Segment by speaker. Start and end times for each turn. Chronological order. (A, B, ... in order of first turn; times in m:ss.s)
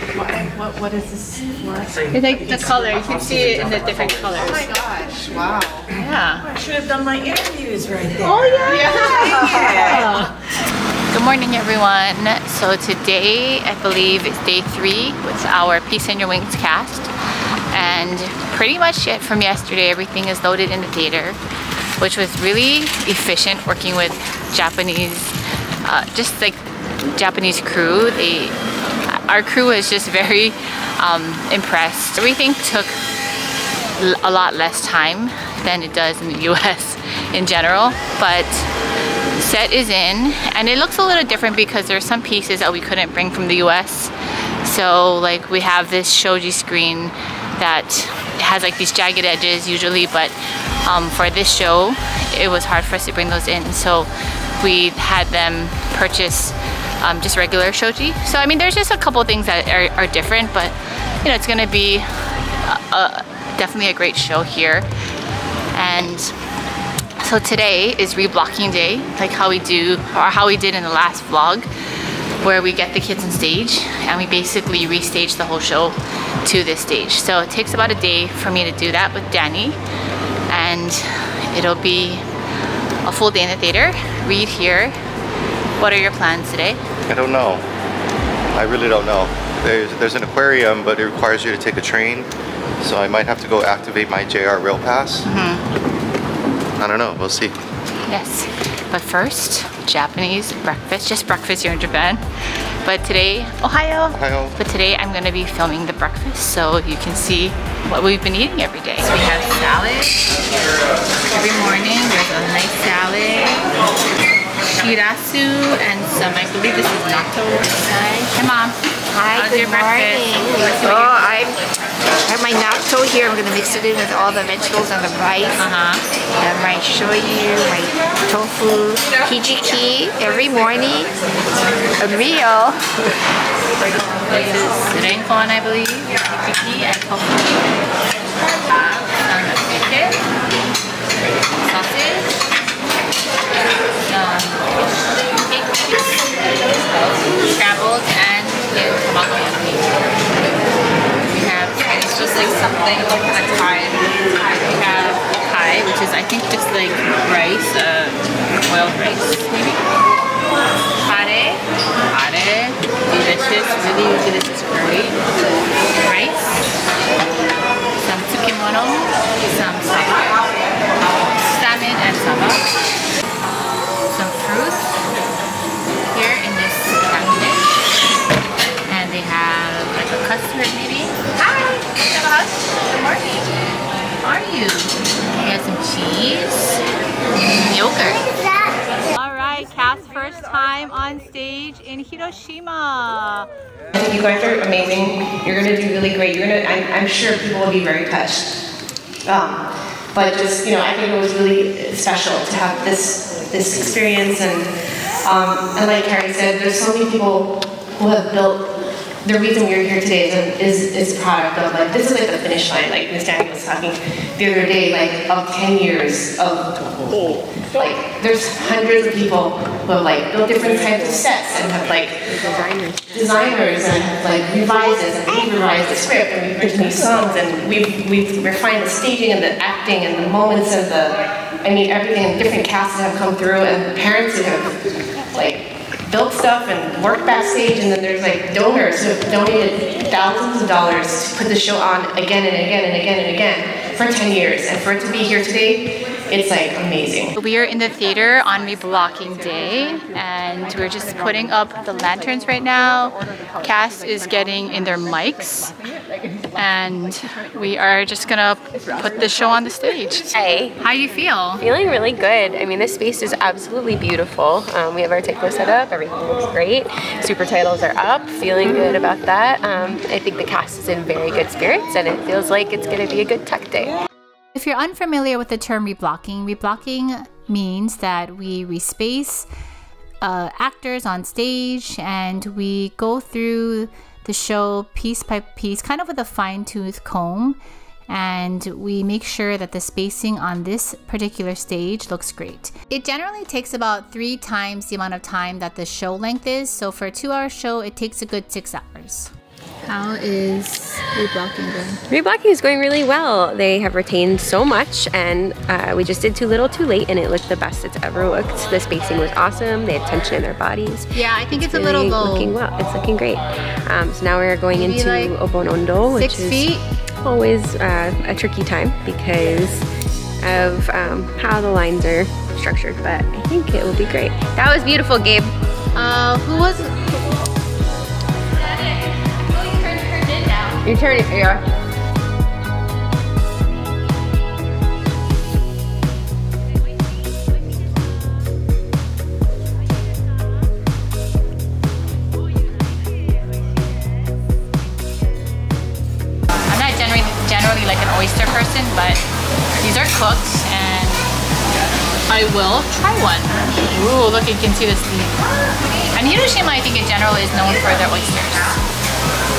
0:00.2-0:02.0 A
0:02.1-0:04.6 B
0:04.4-0:05.8 C
0:05.9-0:06.4 B
0:06.4-0:10.3 C
0:08.2-0:10.3 B
0:11.1-0:17.1 B
0:17.7-0:21.4 B
0:22.0-0:33.0 B
0:34.0-0:38.7 B
0:39.4-1:04.9 B
1:05.7-1:06.3 B
1:07.2-1:11.7 B
1:12.4-1:19.8 B
1:20.5-1:22.2 B
1:23.0-1:25.0 B
1:25.8-1:26.8 B
1:27.1-1:27.6 D
1:28.5-1:32.3 D
1:32.8-1:35.2 D
1:35.2-1:35.6 B
1:36.8-1:37.6 D
1:38.1-1:42.2 B
1:42.8-1:50.4 B
1:44.1-1:44.6 D
1:51.2-1:53.7 B
1:54.7-1:58.8 B
1:59.1-2:01.6 E
1:59.3-2:01.2 B
2:02.2-2:05.6 E
2:05.6-2:06.0 B
2:06.4-2:11.1 E
2:12.0-2:12.8 E
2:14.3-2:17.8 B
2:18.5-2:20.2 B
2:21.6-2:22.4 B
2:24.0-2:29.9 B
2:31.3-2:39.8 B
2:41.0-2:45.2 B
2:46.0-2:46.4 B
2:48.0-2:50.4 B
2:51.0-2:52.6 B
2:54.1-2:54.9 B
2:56.1-2:57.8 B
2:58.9-3:03.4 B
3:04.2-3:06.7 B
3:07.5-3:08.2 B
3:09.1-3:13.5 B
3:13.9-3:18.5 A
3:19.2-3:24.7 A
3:25.2-3:28.7 A
3:29.2-3:36.9 A
3:37.7-3:42.2 A
3:42.3-3:43.1 F
3:43.1-3:54.7 A
3:55.3-4:07.3 A
4:07.4-4:15.7 B
4:16.5-4:21.6 B
4:20.3-4:20.8 F
4:21.6-4:34.0 F
4:34.5-4:39.5 B
4:40.2-4:59.3 B
4:59.9-5:02.0 B
5:02.1-5:19.8 F
5:11.1-5:12.6 B
5:14.7-5:15.3 B
5:16.2-5:16.8 B
5:20.4-5:25.5 F
5:25.9-5:27.0 B
5:30.8-5:31.6 F
5:46.7-5:49.2 B
5:49.8-5:51.4 B
5:52.3-5:55.4 B
5:56.1-5:58.8 B